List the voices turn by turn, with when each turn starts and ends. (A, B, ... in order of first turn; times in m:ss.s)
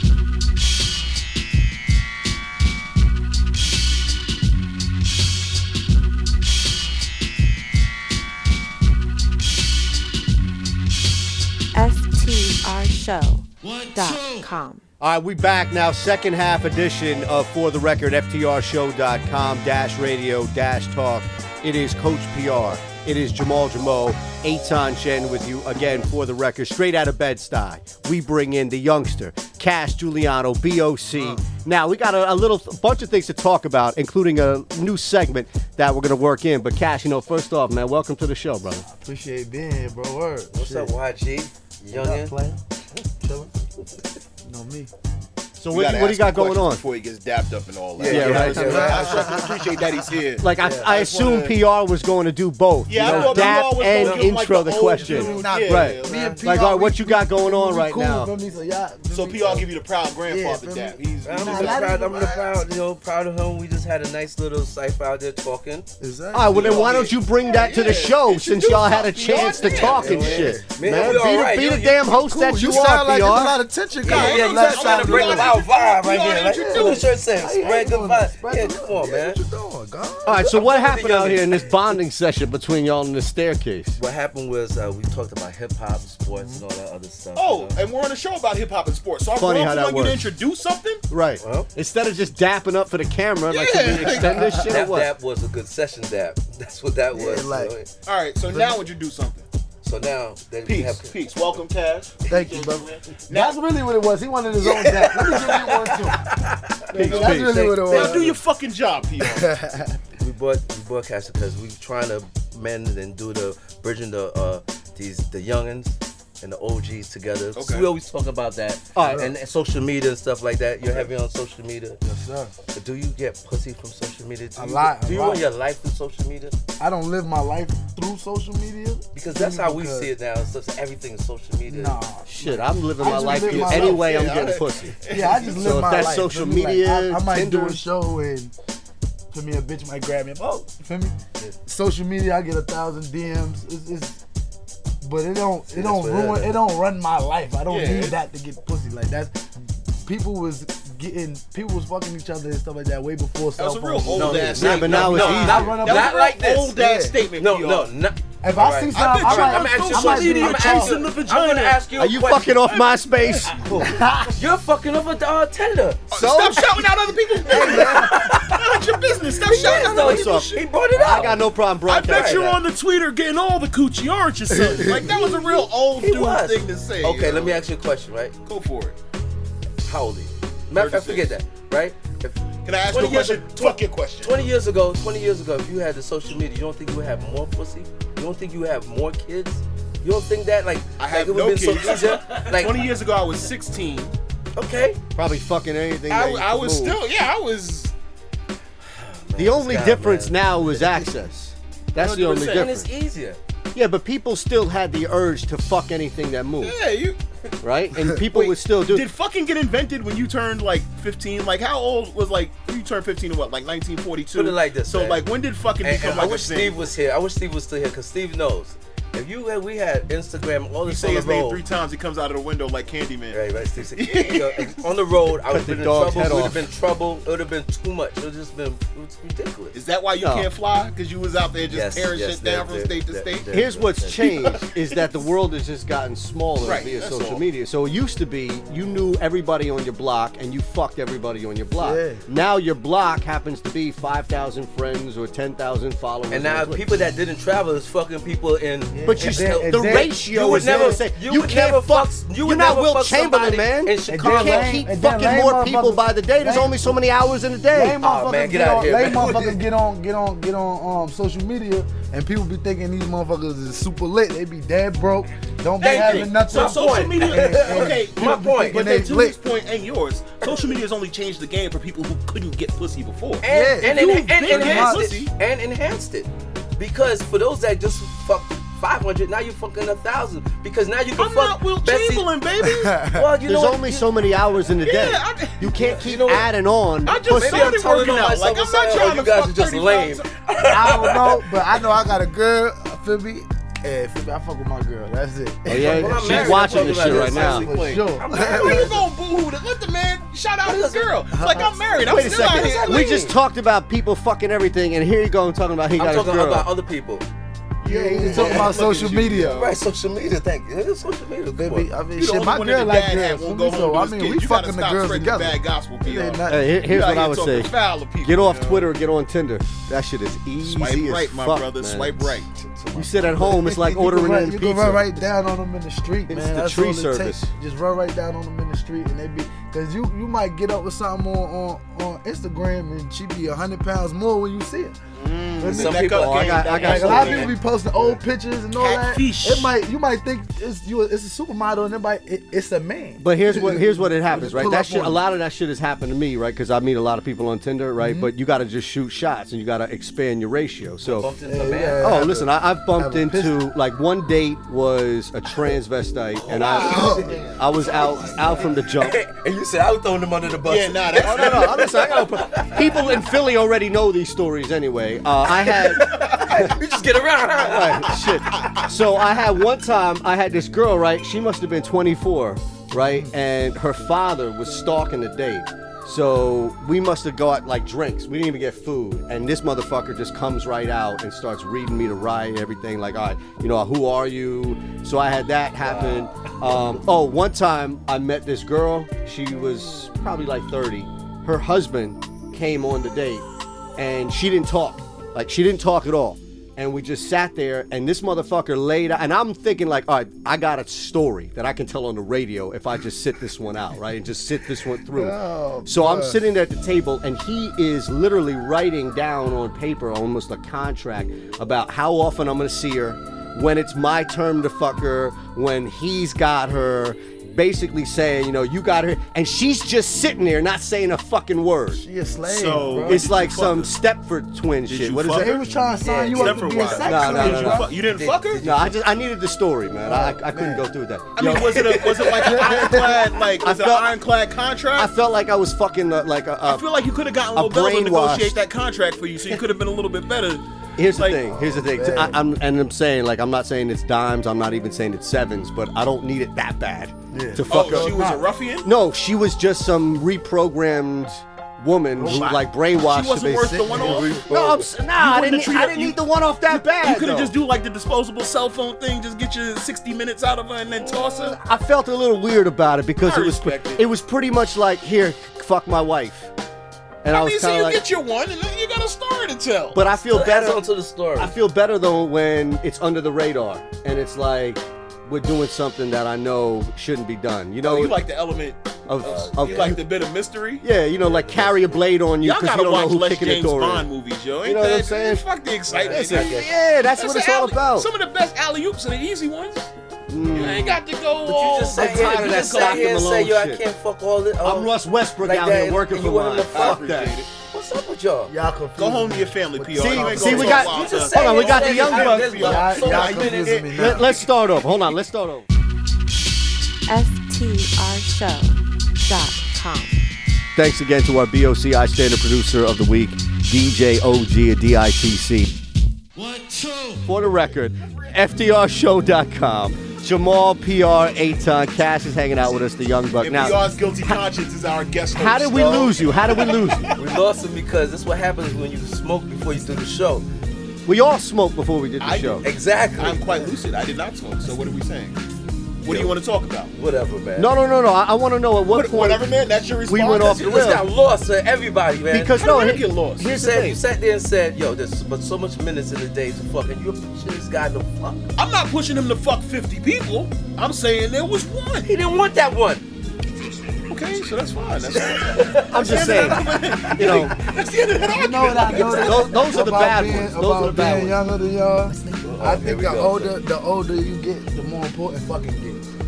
0:11.7-0:14.8 A
0:13.8-0:14.4 B
0:15.0-0:38.8 B
0:31.1-0:31.4 C
0:38.8-0:40.9 C
0:40.5-0:42.4 D
0:41.9-0:42.6 C
0:43.2-0:43.5 C
0:44.4-0:44.9 C
0:45.6-0:46.8 B
0:45.7-0:51.6 E
0:48.0-0:49.5 D
0:48.1-0:49.6 C
0:48.1-0:49.1 B
0:50.4-0:58.3 B
0:52.9-0:56.4 E
0:53.0-0:54.3 D
0:55.0-0:59.7 C
0:55.1-0:55.4 D
0:59.1-1:02.0 E
1:00.3-1:02.6 C
1:01.2-1:05.9 D
1:06.0-1:07.1 C
1:06.3-1:13.6 B
1:06.5-1:10.5 E
1:09.6-1:11.3 C
1:09.6-1:12.0 D
1:12.0-1:15.6 C
1:14.0-1:19.4 D
1:14.1-1:17.1 E
1:16.5-1:20.7 C
1:20.2-1:24.0 B
1:20.3-1:21.8 D
1:24.0-1:27.9 D
1:26.3-1:26.6 C
1:27.4-1:31.0 E
1:29.4-1:30.4 B
1:31.1-1:35.1 B
1:31.4-1:31.7 D
1:33.5-1:34.6 E
1:34.0-1:34.8 C
1:34.5-1:37.9 D
1:37.1-1:37.7 C
1:38.1-1:39.5 E
1:38.5-1:38.8 C
1:39.8-1:41.6 D
1:40.7-1:43.6 E
1:42.3-1:46.3 C
1:44.6-1:48.4 D
1:46.9-1:48.3 C
1:46.9-1:47.8 B
1:47.0-1:49.5 E
1:49.2-1:50.0 C
1:50.2-2:02.0 D
1:57.6-1:57.9 E
1:59.0-1:59.3 B
2:02.0-2:02.5 C
2:02.7-2:06.6 D
2:04.6-2:05.5 C
2:06.8-2:10.1 C
2:09.1-2:12.0 D
2:11.7-2:14.2 C
2:12.3-2:17.8 B
2:13.3-2:15.8 E
2:15.1-2:18.5 C
2:19.3-2:24.2 C
2:25.0-2:36.2 C
2:25.7-2:26.6 D
2:27.7-2:28.2 E
2:33.6-2:37.9 E
2:34.1-2:36.8 D
2:34.6-2:35.8 B
2:36.7-2:37.2 C
2:37.3-2:42.7 D
2:38.4-2:41.0 C
2:38.9-2:41.9 E
2:42.0-2:43.5 B
2:42.6-2:43.5 E
2:43.5-2:46.1 D
2:43.8-2:44.3 C
2:46.1-2:50.3 E
2:46.1-2:48.2 B
2:47.4-2:48.2 C
2:47.7-2:48.8 D
2:49.3-2:51.5 D
2:49.7-2:52.6 B
2:51.9-2:57.6 E
2:52.1-2:52.4 D
2:54.5-2:55.1 C
2:55.1-2:58.4 D
2:58.5-2:59.0 E
2:59.8-3:12.8 D
3:00.7-3:01.3 E
3:02.6-3:04.5 E
3:11.0-3:14.1 E
3:14.6-3:15.0 D
3:15.2-3:17.0 B
3:16.1-3:17.9 E
3:18.9-3:21.1 D
3:19.4-3:22.9 B
3:22.0-3:23.4 D
3:23.8-3:26.8 B
3:26.6-3:27.2 E
3:27.6-3:29.1 B
3:28.3-3:36.9 E
3:34.3-3:35.2 D
3:35.8-3:41.6 D
3:40.8-3:43.4 E
3:43.3-3:49.8 D
3:44.0-3:44.8 E
3:45.5-3:46.7 B
3:49.7-3:53.5 E
3:50.2-3:50.5 B
3:51.7-3:54.2 D
3:53.5-4:06.9 B
3:54.2-3:54.7 E
3:56.6-3:57.4 E
4:01.8-4:02.2 C
4:06.3-4:14.8 D
4:08.9-4:11.0 C
4:09.0-4:18.0 B
4:14.1-4:17.0 C
4:17.7-4:29.4 C
4:18.0-4:19.6 D
4:19.0-4:19.6 E
4:25.8-4:35.3 E
4:25.8-4:28.9 D
4:33.4-4:42.3 D
4:33.5-4:35.1 C
4:41.2-4:43.0 E
4:42.6-4:43.3 C
4:43.1-4:44.2 D
4:43.5-4:47.8 B
4:44.8-4:45.7 E
4:45.7-4:46.5 D
4:47.0-4:50.3 E
4:47.1-4:51.5 D
4:50.7-4:59.0 C
4:55.7-4:57.7 B
4:55.7-4:59.0 D
4:56.4-5:03.2 E
5:00.6-5:03.4 D
5:01.3-5:01.8 C
5:02.1-5:06.7 B
5:06.0-5:07.3 D
5:07.8-5:09.8 E
5:07.8-5:09.6 C
5:08.2-5:11.9 D
5:11.6-5:16.7 C
5:12.2-5:18.9 E
5:16.5-5:22.4 B
5:20.6-5:22.5 E
5:22.6-5:35.0 C
5:22.9-5:25.2 B
5:26.3-5:27.5 B
5:35.2-5:38.2 E
5:35.6-5:45.2 C
5:35.6-5:37.5 D
5:36.2-5:37.5 B
5:38.7-5:39.7 E
5:43.2-5:51.3 B
5:48.0-5:48.3 C
5:51.0-5:52.1 D
5:51.5-5:53.6 C
5:52.0-5:59.2 B
5:56.4-5:58.4 E
5:56.5-5:57.2 D
5:56.8-5:57.4 C
5:58.1-6:03.1 D
6:00.7-6:02.0 E
6:01.2-6:06.8 B
6:05.5-6:08.6 D
6:07.6-6:33.5 B
6:08.6-6:08.8 E
6:13.0-6:13.3 C
6:25.8-6:26.8 D
6:34.0-7:02.0 B
6:45.1-6:46.4 C
7:01.9-7:03.2 C
7:02.4-7:04.0 E
7:03.0-7:05.5 B
7:04.9-7:05.7 E
7:05.4-7:07.9 C
7:06.0-7:08.9 D
7:06.3-7:08.7 E
7:07.1-7:07.9 B
7:08.6-7:12.0 B
7:10.0-7:10.8 C
7:11.4-7:15.1 E
7:12.0-7:12.6 D
7:12.4-7:13.3 C
7:12.6-7:13.1 B
7:13.6-7:14.2 B
7:15.0-7:16.8 B
7:16.6-7:21.4 E
7:17.6-7:18.6 B
7:21.0-7:28.2 B
7:21.4-7:22.4 C
7:27.3-7:28.5 C
7:27.6-7:28.9 E
7:28.8-7:37.5 B
7:32.2-7:32.6 C
7:32.2-7:41.6 E
7:33.7-7:34.7 C
7:41.4-7:46.5 B
7:43.2-7:44.1 E
7:47.2-7:48.0 B
7:47.3-7:50.0 E
7:49.9-7:50.8 B
7:50.3-7:51.6 D
7:51.4-7:58.2 B
7:57.8-8:00.8 E
7:59.1-8:00.0 B
7:59.2-8:00.0 D
8:00.8-8:04.1 B
8:01.2-8:02.0 D
8:02.4-8:06.6 E
8:04.6-8:05.4 B
8:05.9-8:06.7 D
8:06.1-8:08.1 B
8:07.2-8:09.9 E
8:10.3-8:11.0 B
8:10.5-8:13.2 E
8:11.4-8:17.0 D
8:11.9-8:13.8 B
8:14.6-8:17.4 B
8:16.7-8:17.5 E
8:17.6-8:18.5 D
8:18.5-8:20.9 C
8:19.0-8:24.5 E
8:19.9-8:22.8 B
8:20.6-8:23.8 D
8:22.6-8:24.3 C
8:23.9-8:25.7 B
8:27.1-8:30.2 A
8:30.8-8:35.7 B
8:36.4-8:44.4 B
8:37.4-8:38.6 E
8:43.4-8:47.1 E
8:45.4-8:47.1 B
8:47.1-8:50.5 D
8:51.1-8:52.7 B
8:52.2-8:55.4 E
8:52.6-8:53.5 D
8:56.0-8:56.9 E
8:56.1-8:56.4 D
8:56.9-8:57.8 D
8:57.6-8:59.5 B
8:58.9-9:01.0 E
9:00.1-9:01.0 B
9:00.4-9:02.6 D
9:02.3-9:04.0 B
9:02.6-9:03.5 E
9:03.4-9:08.5 D
9:08.6-9:12.1 E
9:12.0-9:13.0 D
9:14.1-9:19.8 E
9:15.2-9:16.8 D
9:15.9-9:17.6 B
9:18.3-9:26.0 C
9:19.2-9:21.4 B
9:22.3-9:23.6 D